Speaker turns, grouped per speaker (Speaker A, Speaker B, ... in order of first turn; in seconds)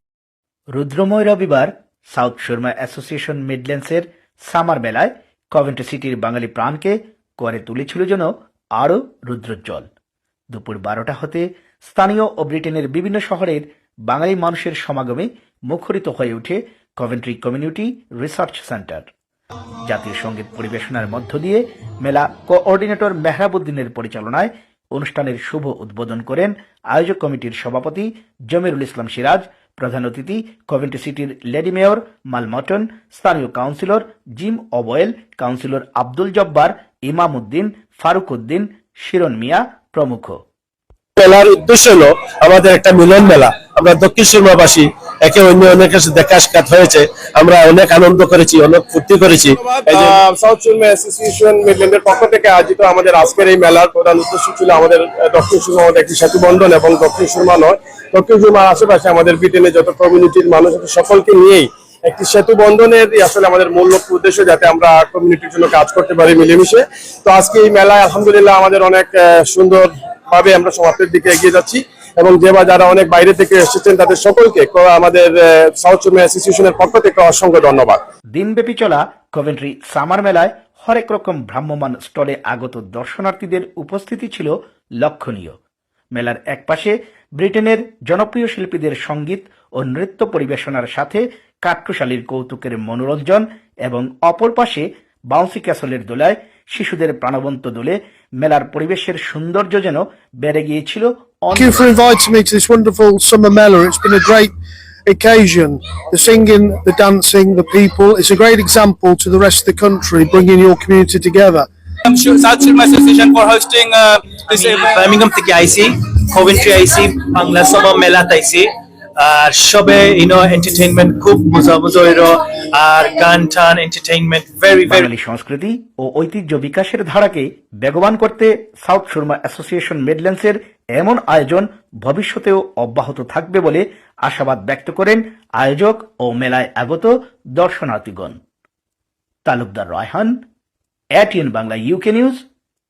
Speaker A: 0.7-9.9, 10.5-19.1, 19.8-40.4, 78.3-85.6, 86.1-101.9, 124.9-138.4, 139.5-140.4, 141.2-142.4
Speaker B: 41.2-50.2
Speaker C: 49.6-78.0
Speaker D: 101.5-104.5, 105.1-111.7
Speaker E: 112.1-115.1
Speaker F: 114.5-125.1